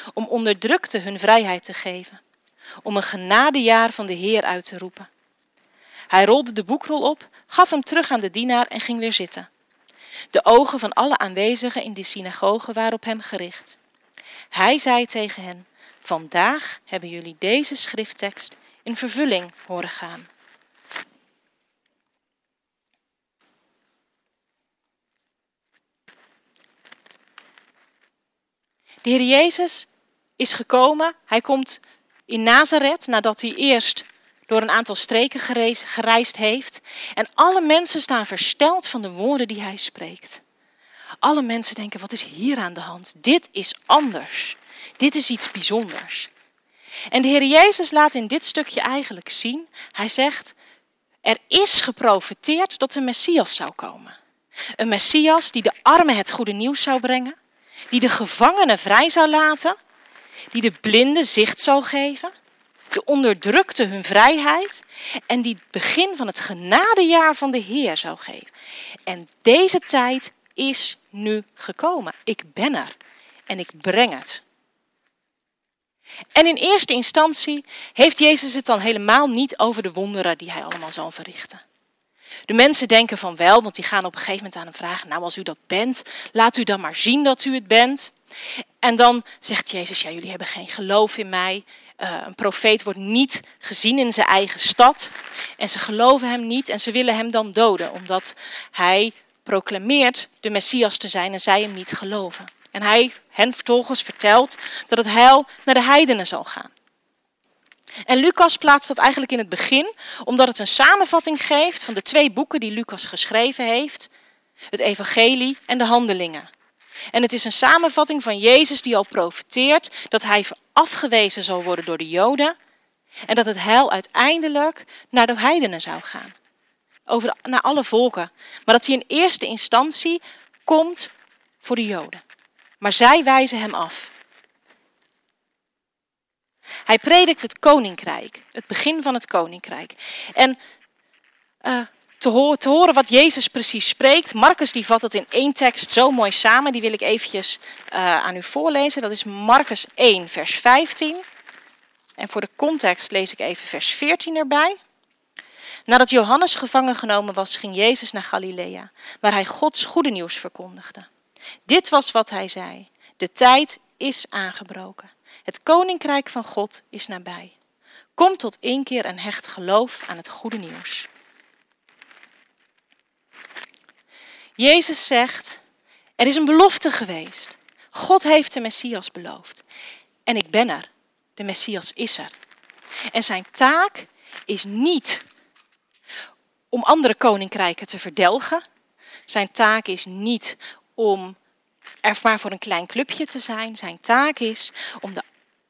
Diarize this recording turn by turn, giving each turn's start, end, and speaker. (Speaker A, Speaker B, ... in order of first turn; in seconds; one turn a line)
Speaker A: 0.1-2.2
Speaker A: 2.8-5.1
Speaker A: 6.1-9.5
Speaker A: 10.3-13.8
Speaker A: 14.5-20.3
Speaker A: 29.0-40.4
Speaker A: 41.2-46.3
Speaker A: 47.1-50.6
Speaker A: 51.2-54.1
Speaker A: 54.8-57.4
Speaker A: 57.9-59.8
Speaker A: 60.5-62.3
Speaker A: 62.9-68.5
Speaker A: 69.1-73.0
Speaker A: 73.5-74.4
Speaker A: 76.3-81.6
Speaker A: 82.5-88.1
Speaker A: 88.8-106.7
Speaker A: 108.1-114.1
Speaker A: 114.7-116.5
Speaker A: 117.1-122.6
Speaker A: 123.3-126.3
Speaker A: 127.1-131.1
Speaker A: 131.6-132.2
Speaker A: 132.8-134.1
Speaker A: 136.8-140.6
Speaker A: 141.6-151.2
Speaker A: 152.2-154.8
Speaker A: 155.9-161.1
Speaker A: 161.7-167.6
Speaker A: 168.2-171.1
Speaker A: 174.6-175.6
Speaker A: 176.2-179.7
Speaker A: 180.3-182.3
Speaker A: 183.1-185.2
Speaker A: 186.7-188.6
Speaker A: 189.3-191.4
Speaker A: 192.1-195.2